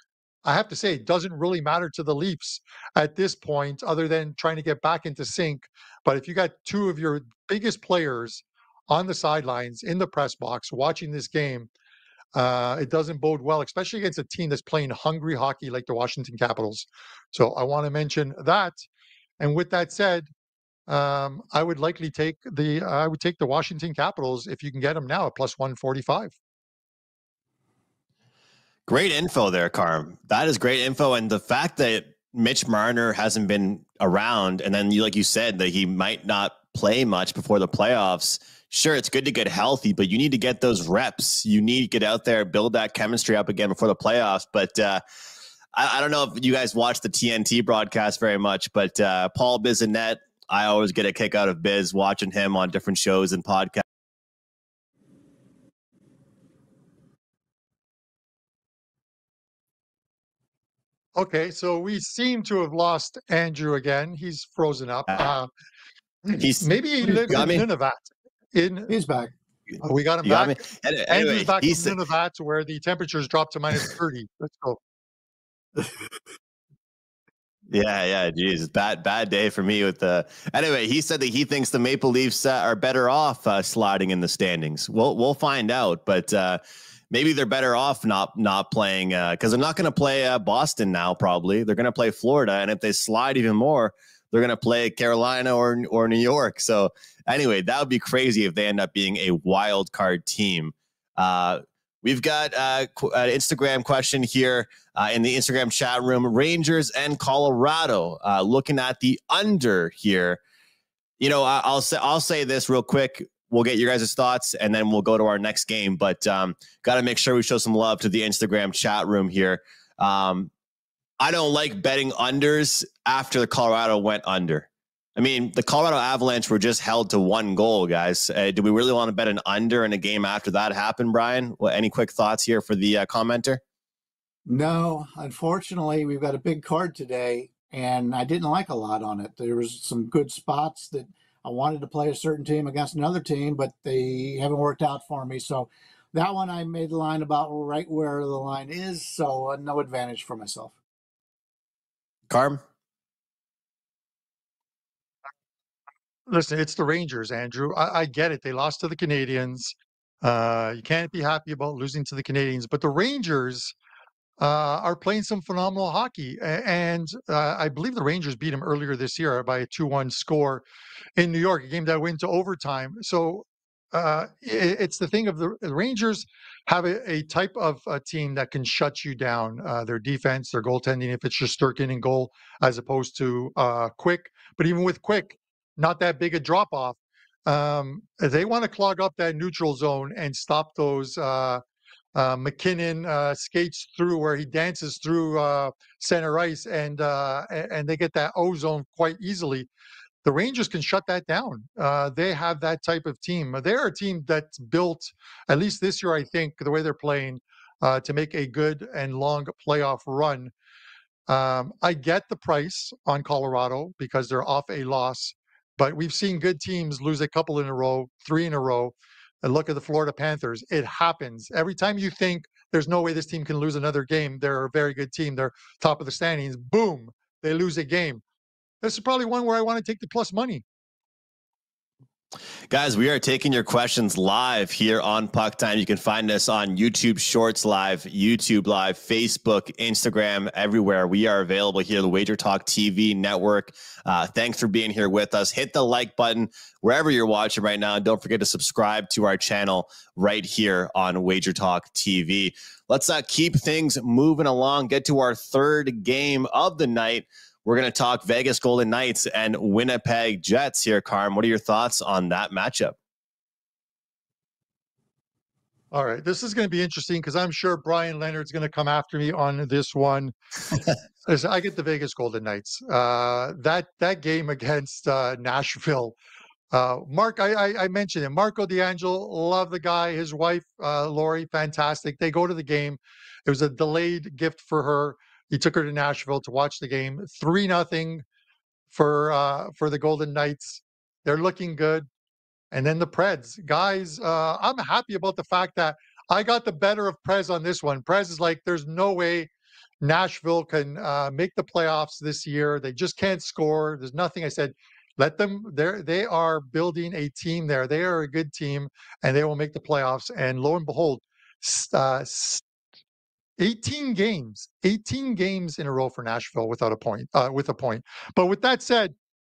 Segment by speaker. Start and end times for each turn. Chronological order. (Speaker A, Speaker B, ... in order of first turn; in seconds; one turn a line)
Speaker A: 0.4-11.7
Speaker A: 12.3-18.8
Speaker A: 19.4-20.3
Speaker A: 20.9-26.3
Speaker B: 28.9-45.0
Speaker B: 45.7-53.8
Speaker A: 61.1-65.5
Speaker A: 66.2-68.9
Speaker B: 66.3-66.7
Speaker B: 67.2-67.6
Speaker C: 68.9-69.3
Speaker A: 69.8-74.8
Speaker B: 70.2-72.0
Speaker B: 77.7-86.6
Speaker B: 87.1-110.4
Speaker B: 111.2-120.5
Speaker B: 121.2-133.6
Speaker C: 134.4-150.8
Speaker B: 152.3-152.6
Speaker A: 156.3-163.7
Speaker A: 164.4-170.6
Speaker A: 171.2-191.6
Speaker A: 192.1-199.7
Speaker A: 200.2-210.5
Speaker A: 211.3-228.2
Speaker A: 228.8-230.6
Speaker B: 232.7-262.9
Speaker A: 265.9-270.3
Speaker A: 271.2-276.1
Speaker A: 276.7-288.2
Speaker A: 288.9-292.1
Speaker A: 292.7-299.5
Speaker A: 300.0-312.6
Speaker A: 313.6-319.1